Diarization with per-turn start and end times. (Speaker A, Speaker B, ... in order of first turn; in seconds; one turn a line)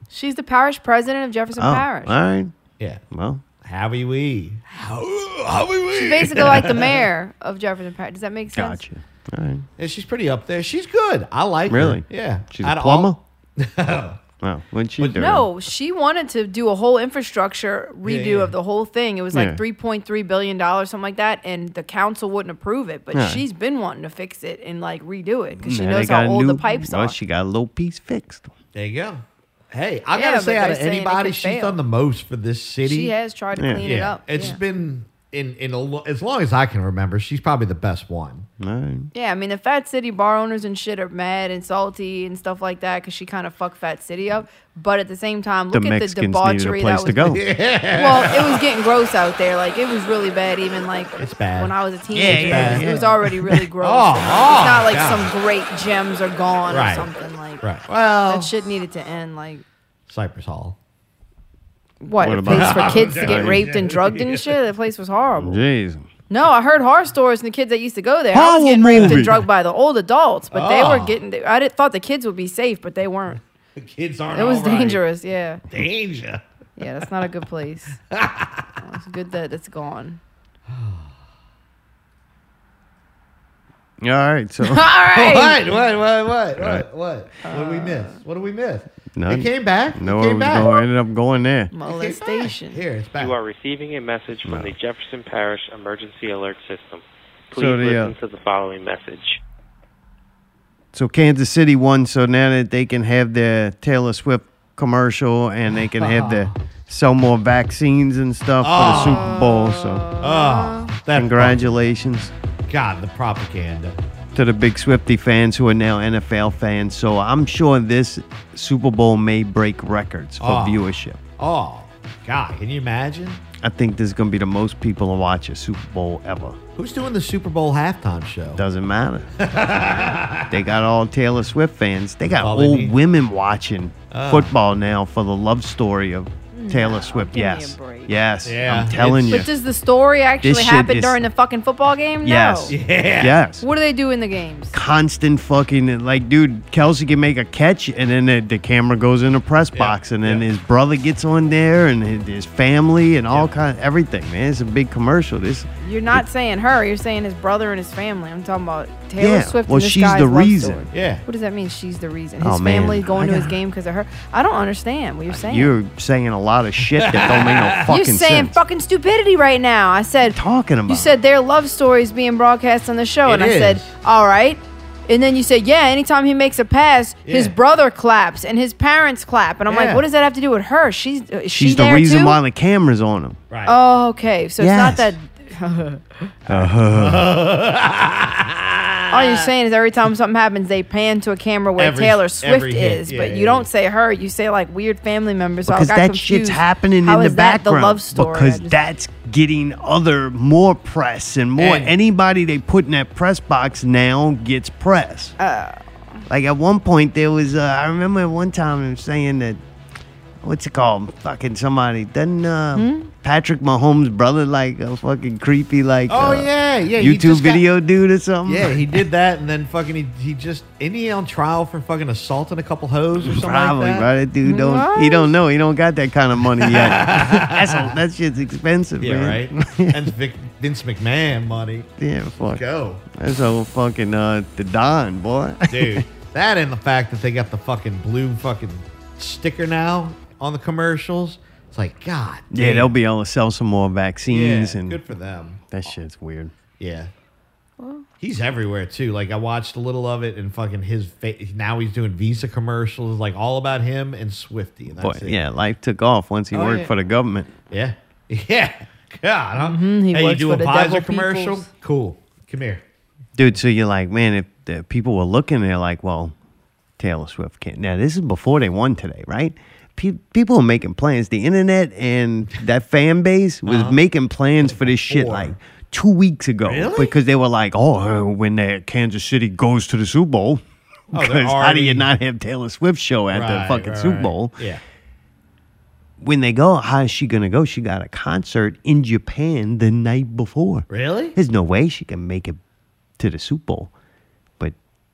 Speaker A: 0.1-2.1
Speaker B: 1.6-2.5
Speaker B: 3.1-3.4
Speaker C: 3.6-7.1
Speaker A: 5.9-8.8
Speaker B: 8.5-9.7
Speaker C: 9.8-14.2
Speaker B: 11.7-13.2
Speaker B: 14.4-15.5
Speaker A: 15.1-27.2
Speaker C: 18.0-18.5
Speaker B: 19.3-19.6
Speaker B: 23.1-23.4
Speaker B: 25.6-28.5
Speaker C: 28.7-33.1
Speaker A: 30.1-31.8
Speaker A: 32.8-34.6
Speaker B: 33.5-33.8
Speaker C: 33.8-38.5
Speaker B: 38.6-39.1
Speaker A: 39.1-47.3
Speaker B: 45.7-47.4
Speaker C: 47.2-48.6
Speaker A: 47.9-57.6
Speaker C: 51.2-53.0
Speaker B: 52.1-53.3
Speaker C: 53.8-55.3
Speaker C: 56.7-57.1
Speaker C: 57.6-58.5
Speaker A: 58.3-59.6
Speaker C: 60.1-60.8
Speaker A: 62.0-65.6
Speaker B: 62.2-63.6
Speaker C: 62.5-64.5
Speaker B: 65.4-66.1
Speaker A: 66.3-73.4
Speaker B: 68.3-69.4
Speaker C: 68.9-69.3
Speaker C: 70.5-71.2
Speaker C: 73.8-75.0
Speaker A: 74.3-75.6
Speaker C: 75.7-76.4
Speaker A: 76.8-78.0
Speaker C: 78.1-78.7
Speaker A: 78.8-80.2
Speaker C: 80.7-81.1
Speaker B: 84.0-84.8
Speaker A: 84.6-85.6
Speaker C: 85.1-90.7
Speaker B: 86.6-86.8
Speaker A: 87.4-88.2
Speaker B: 89.2-91.7
Speaker A: 91.7-92.8
Speaker C: 91.8-93.3
Speaker D: 93.2-99.4
Speaker B: 94.5-94.7
Speaker B: 97.5-98.1
Speaker B: 100.9-110.1
Speaker C: 105.8-106.5
Speaker C: 108.6-109.3
Speaker A: 108.8-110.9
Speaker C: 110.2-111.8
Speaker B: 111.1-112.3
Speaker C: 112.7-114.0
Speaker B: 114.3-121.2
Speaker C: 120.4-120.8
Speaker C: 121.4-123.4
Speaker B: 123.6-126.6
Speaker C: 126.8-128.6
Speaker B: 128.5-129.3
Speaker C: 129.4-130.6
Speaker B: 130.5-139.5
Speaker C: 132.4-132.9
Speaker C: 134.1-134.5
Speaker A: 136.5-138.2
Speaker C: 138.4-139.4
Speaker A: 139.2-142.7
Speaker B: 140.4-141.2
Speaker B: 142.2-143.7
Speaker C: 142.7-143.4
Speaker A: 143.6-144.8
Speaker B: 144.7-156.2
Speaker C: 149.7-150.4
Speaker A: 155.8-165.7
Speaker B: 159.2-160.8
Speaker C: 160.9-161.2
Speaker B: 162.4-163.5
Speaker B: 165.3-168.6
Speaker C: 166.8-167.9
Speaker A: 167.9-170.4
Speaker B: 170.2-171.1
Speaker A: 170.9-182.4
Speaker C: 173.2-173.9
Speaker C: 177.2-177.5
Speaker C: 179.7-180.1
Speaker B: 181.5-183.4
Speaker C: 183.5-183.8
Speaker A: 183.7-186.3
Speaker B: 184.6-185.1
Speaker C: 186.5-189.5
Speaker B: 186.5-187.3
Speaker A: 189.1-198.8
Speaker C: 191.8-193.7
Speaker B: 195.7-205.3
Speaker C: 201.6-201.9
Speaker A: 205.4-206.2
Speaker B: 206.3-209.6
Speaker B: 210.4-218.8
Speaker A: 212.7-213.1
Speaker C: 216.1-217.6
Speaker C: 218.4-224.1
Speaker B: 223.2-230.1
Speaker A: 224.4-225.3
Speaker C: 226.6-227.9
Speaker C: 229.0-231.9
Speaker B: 232.0-236.0
Speaker C: 232.5-233.1
Speaker C: 235.7-242.9
Speaker B: 242.5-245.0
Speaker C: 244.3-245.6
Speaker B: 245.7-246.5
Speaker C: 246.8-247.1
Speaker A: 247.8-248.0
Speaker C: 248.2-255.4
Speaker B: 255.0-257.5
Speaker C: 256.5-256.9
Speaker C: 257.7-262.8
Speaker A: 259.6-261.7
Speaker B: 263.4-266.3
Speaker B: 267.0-284.6
Speaker C: 273.6-274.0
Speaker C: 274.6-275.5
Speaker C: 276.6-277.1
Speaker C: 281.1-282.1
Speaker C: 283.3-284.8
Speaker B: 286.2-292.6
Speaker C: 290.9-291.4
Speaker B: 293.2-293.9